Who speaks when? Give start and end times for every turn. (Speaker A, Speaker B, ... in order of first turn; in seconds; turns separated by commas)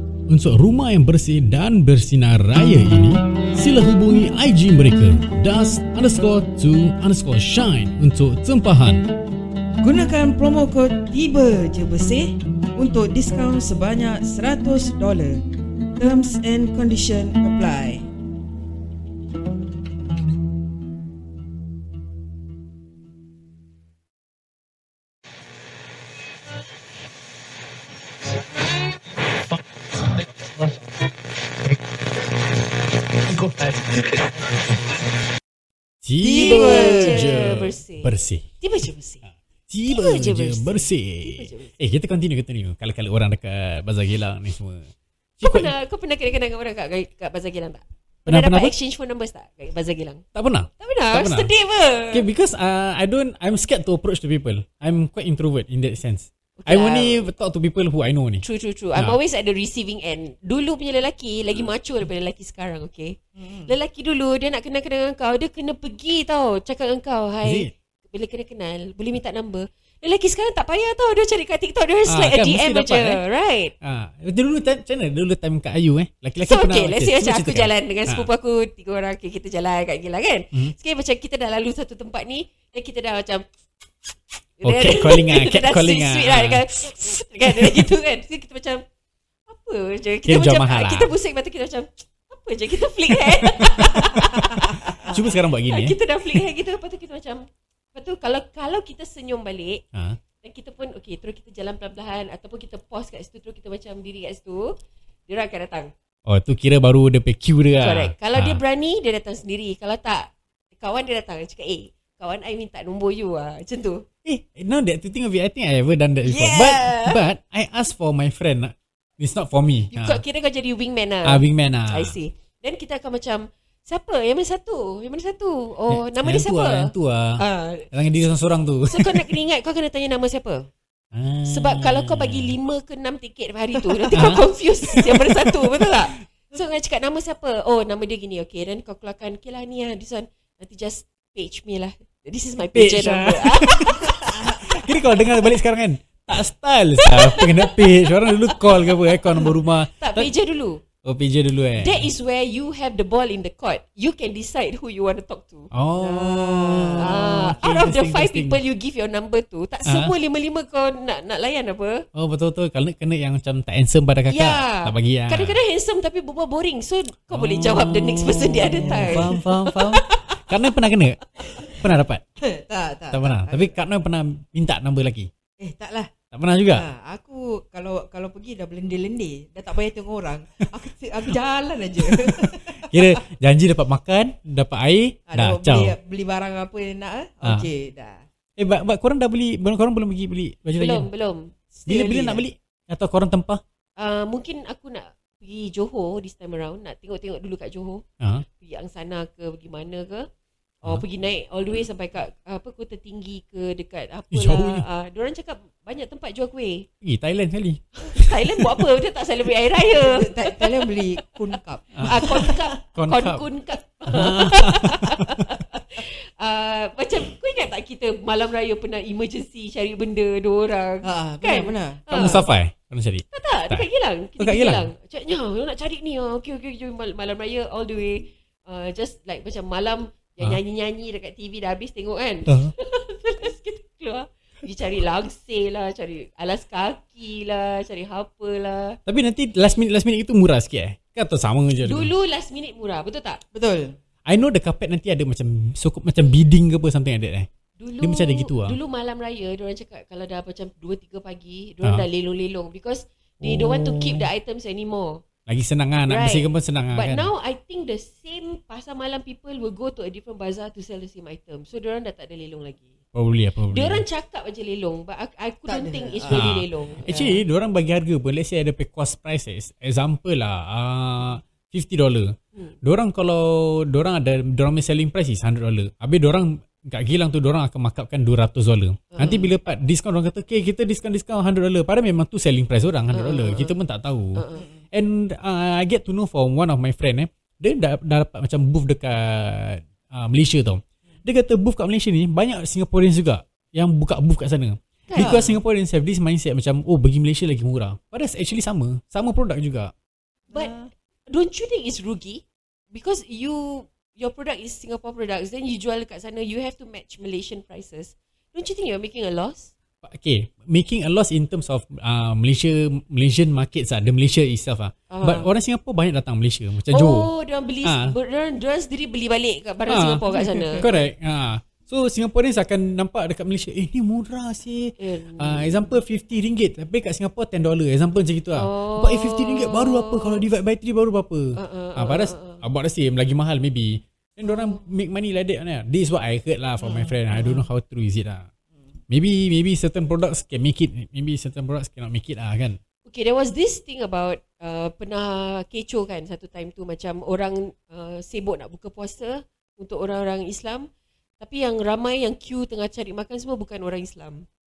Speaker A: 0.3-9.0, Speaker B: 9.8-15.4, Speaker B: 16.0-18.1, Speaker A: 36.0-38.4, Speaker B: 36.2-37.4, Speaker C: 36.3-39.2, Speaker A: 39.7-45.7, Speaker C: 39.9-41.7, Speaker C: 45.4-50.2, Speaker A: 48.2-48.7, Speaker A: 50.3-51.5, Speaker C: 50.8-52.2, Speaker A: 52.1-58.4, Speaker C: 56.6-57.2, Speaker C: 58.4-73.7, Speaker B: 63.4-63.7, Speaker A: 67.4-67.7, Speaker A: 72.1-73.2, Speaker A: 73.8-78.3, Speaker C: 76.4-83.4, Speaker C: 84.6-88.8, Speaker A: 84.6-87.9, Speaker C: 89.5-99.8, Speaker A: 90.2-91.1, Speaker A: 93.1-96.0, Speaker C: 100.4-104.7, Speaker C: 105.3-105.9, Speaker A: 106.2-108.6, Speaker C: 107.8-114.0, Speaker A: 114.2-120.2, Speaker C: 116.2-117.2, Speaker C: 119.9-127.9, Speaker A: 121.2-122.2, Speaker A: 125.9-129.2, Speaker C: 128.9-130.7, Speaker A: 131.1-132.5, Speaker C: 131.4-144.2, Speaker A: 134.1-136.2, Speaker A: 142.7-150.3, Speaker C: 147.0-150.8, Speaker A: 151.0-152.1, Speaker C: 151.8-155.7, Speaker A: 155.7-158.6, Speaker B: 156.0-157.2, Speaker C: 157.0-162.0, Speaker A: 162.1-165.6, Speaker C: 164.3-170.4, Speaker A: 167.3-172.2, Speaker B: 168.8-169.4, Speaker B: 172.4-173.7, Speaker A: 173.1-175.3, Speaker B: 175.6-176.1, Speaker A: 176.3-176.8, Speaker B: 176.7-183.2, Speaker A: 182.0-185.9, Speaker B: 185.3-188.2, Speaker A: 187.4-187.7, Speaker A: 188.6-191.1, Speaker C: 190.8-192.3, Speaker A: 191.8-193.6, Speaker B: 191.9-192.4, Speaker C: 194.0-200.2, Speaker C: 200.8-206.9, Speaker A: 204.3-204.8, Speaker A: 207.0-208.6, Speaker C: 208.0-210.8, Speaker B: 209.9-212.6, Speaker A: 211.9-212.3, Speaker C: 212.0-222.5, Speaker A: 212.9-213.4, Speaker A: 214.1-215.4, Speaker B: 221.0-222.2, Speaker A: 222.1-223.9, Speaker C: 223.3-239.0, Speaker A: 224.4-224.9, Speaker A: 232.5-232.7, Speaker A: 239.1-242.1, Speaker C: 241.8-243.4, Speaker B: 243.5-243.9, Speaker A: 244.2-247.5, Speaker C: 247.8-255.2, Speaker A: 248.0-248.8, Speaker A: 253.4-254.3, Speaker A: 255.5-257.3, Speaker C: 256.0-262.9, Speaker A: 263.1-264.0, Speaker C: 263.7-267.4, Speaker B: 265.7-266.5, Speaker A: 266.3-299.9, Speaker C: 279.1-279.5, Speaker C: 283.1-283.8, Speaker C: 284.3-284.7, Speaker C: 295.1-295.3, Speaker B: 295.2-295.6, Speaker B: 300.5-300.9, Speaker C: 301.3-309.7, Speaker A: 310.0-317.3, Speaker C: 315.1-315.5, Speaker C: 316.9-320.9, Speaker A: 317.8-318.1, Speaker A: 319.9-338.5, Speaker B: 320.3-321.0, Speaker C: 325.0-325.9, Speaker C: 328.5-330.4, Speaker C: 331.5-332.6, Speaker C: 334.4-334.8, Speaker B: 336.8-337.6, Speaker A: 339.1-342.8, Speaker C: 343.1-350.9, Speaker C: 351.4-354.4